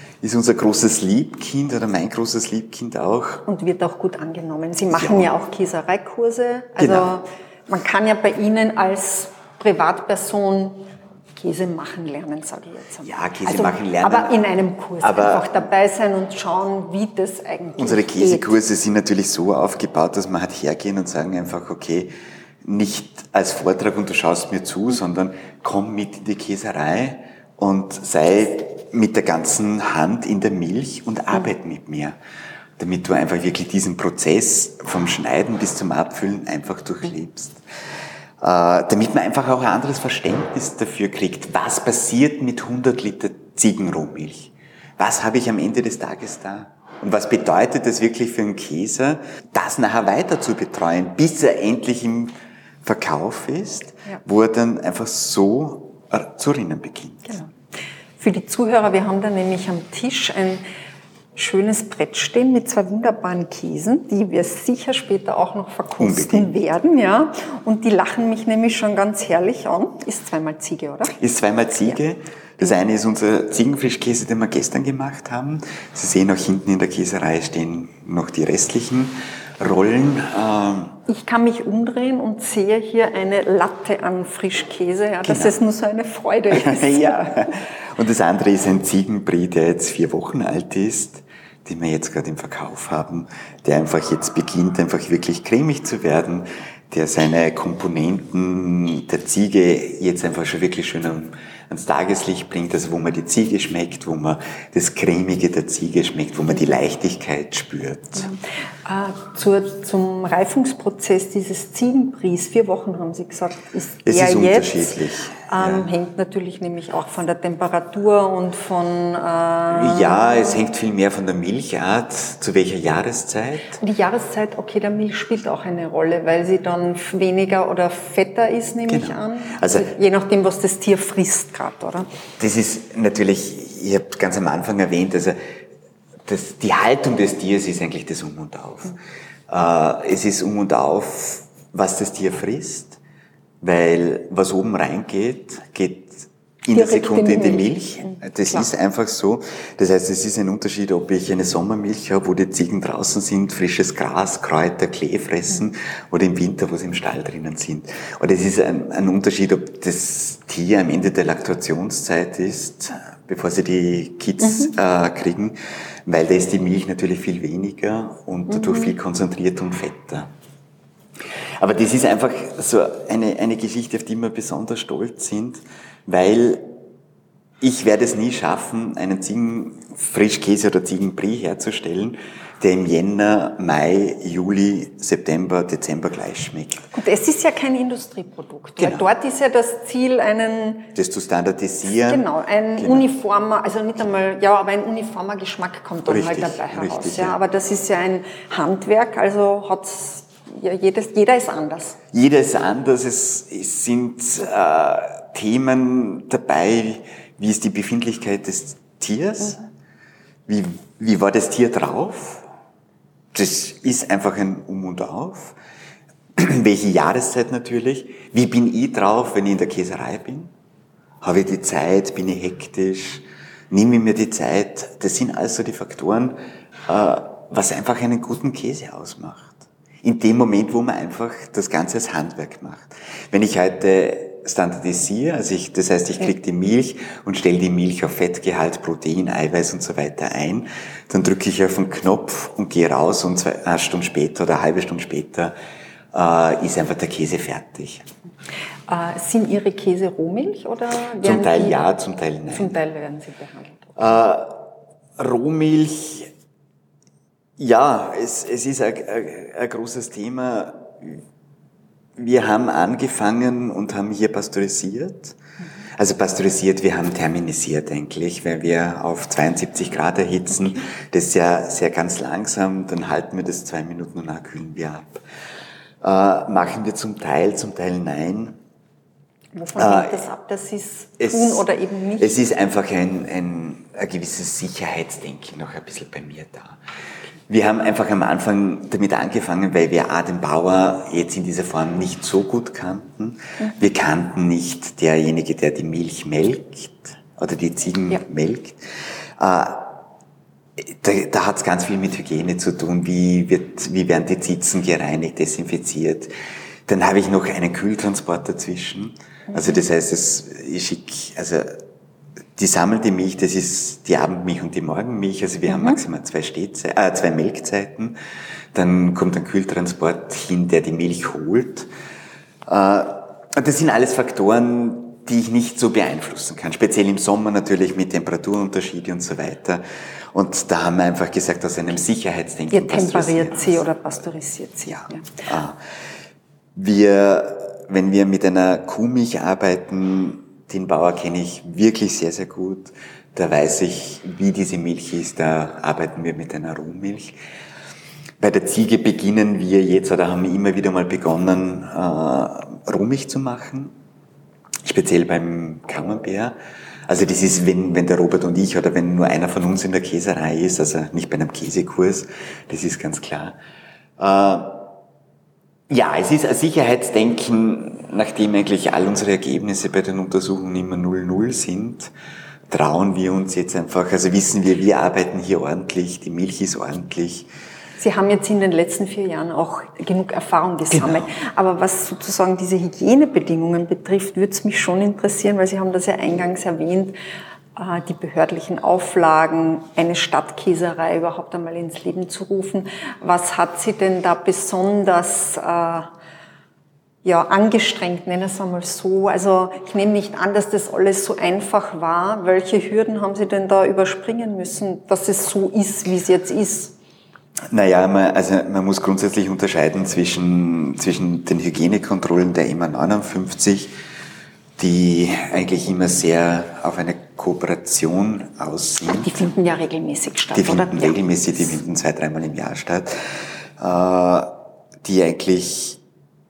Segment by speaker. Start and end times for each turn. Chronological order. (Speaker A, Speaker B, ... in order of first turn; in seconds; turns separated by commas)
Speaker A: 0.2-3.4, Speaker B: 3.5-18.6, Speaker A: 4.9-5.4, Speaker A: 6.8-7.1, Speaker A: 13.0-14.4, Speaker A: 15.0-15.6, Speaker A: 17.8-32.1, Speaker A: 32.8-37.6, Speaker A: 38.4-57.4, Speaker B: 58.2-60.6, Speaker B: 61.3-71.1, Speaker A: 66.0-66.5, Speaker A: 71.2-81.0, Speaker B: 81.1-87.5, Speaker A: 85.2-85.6, Speaker A: 86.5-108.3, Speaker B: 108.2-120.5, Speaker A: 114.0-115.9, Speaker A: 119.7-123.8, Speaker B: 123.8-132.1, Speaker A: 128.8-129.9, Speaker A: 132.4-135.4, Speaker A: 136.2-139.0, Speaker A: 139.5-143.0, Speaker A: 143.6-170.3, Speaker B: 146.7-148.7, Speaker B: 168.5-168.9, Speaker A: 171.6-176.7, Speaker A: 177.6-186.8, Speaker B: 186.9-190.9, Speaker A: 188.8-189.1, Speaker A: 190.9-192.2, Speaker B: 191.9-202.0, Speaker A: 192.8-193.1, Speaker A: 196.1-197.4, Speaker A: 202.1-209.7, Speaker A: 210.5-212.4, Speaker A: 213.3-215.6, Speaker A: 216.3-220.5, Speaker A: 221.2-245.5, Speaker A: 246.1-248.1, Speaker B: 248.9-251.8, Speaker A: 251.2-252.7, Speaker B: 252.5-254.1, Speaker A: 254.0-254.6, Speaker A: 255.2-256.3, Speaker A: 257.6-261.2, Speaker A: 262.2-265.4, Speaker A: 266.0-275.2, Speaker A: 276.0-278.6, Speaker B: 279.6-282.3, Speaker A: 279.8-280.2, Speaker A: 281.2-281.6, Speaker A: 282.2-286.8, Speaker A: 287.5-298.8, Speaker A: 299.4-300.0, Speaker A: 300.8-306.3, Speaker A: 306.9-311.8, Speaker A: 312.6-318.1, Speaker A: 318.7-321.9, Speaker A: 322.6-333.8, Speaker B: 332.7-335.3, Speaker A: 335.4-335.8, Speaker A: 336.7-347.3, Speaker A: 348.4-353.9, Speaker A: 354.8-356.6, Speaker A: 357.1-363.6, Speaker A: 364.2-364.9, Speaker A: 365.9-372.1, Speaker A: 372.7-377.5, Speaker B: 378.0-387.2, Speaker A: 380.9-381.3, Speaker B: 387.8-396.1, Speaker B: 397.2-406.9, Speaker A: 407.7-413.9, Speaker A: 414.8-419.4, Speaker B: 419.2-421.7, Speaker A: 420.5-426.0